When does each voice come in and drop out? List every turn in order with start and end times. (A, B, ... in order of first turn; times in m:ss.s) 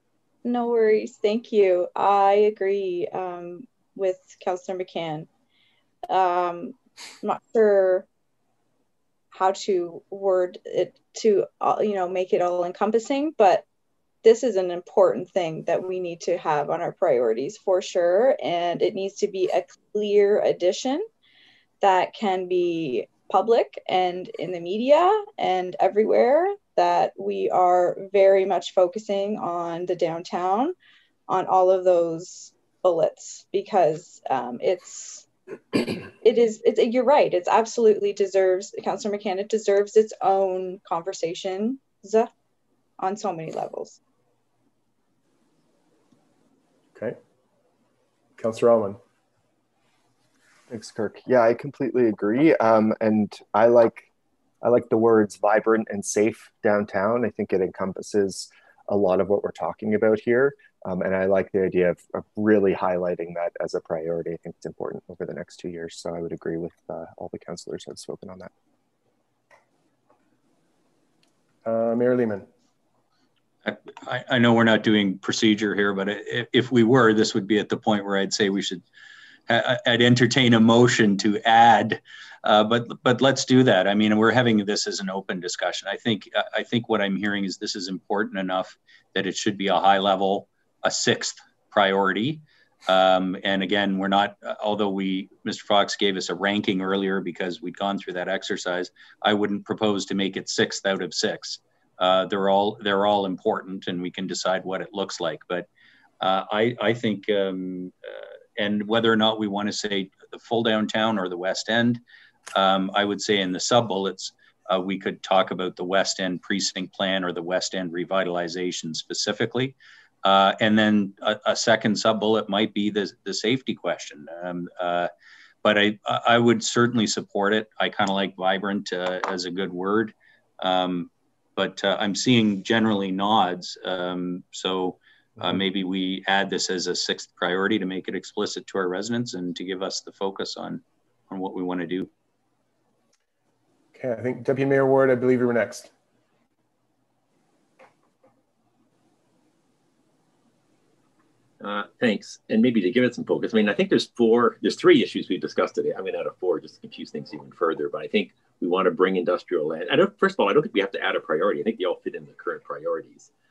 0:00.4-0:05.3 A
0:06.1-0:08.0 A
0:09.3-0:13.6 A
0:14.2-0:21.1 A
0:21.8-0:30.7 A
0:31.3-0:42.3 A
0:43.0-0:44.0 A
0:48.4-0:49.0 B
0:50.7-0:54.1 C
0:54.6-1:08.5 C
1:11.6-1:12.5 B
1:13.6-1:18.8 D
1:19.5-1:45.7 D
1:46.2-1:52.0 D
1:52.6-2:05.1 D
2:05.6-2:22.1 D
2:23.9-2:25.9 B
2:31.6-2:43.3 E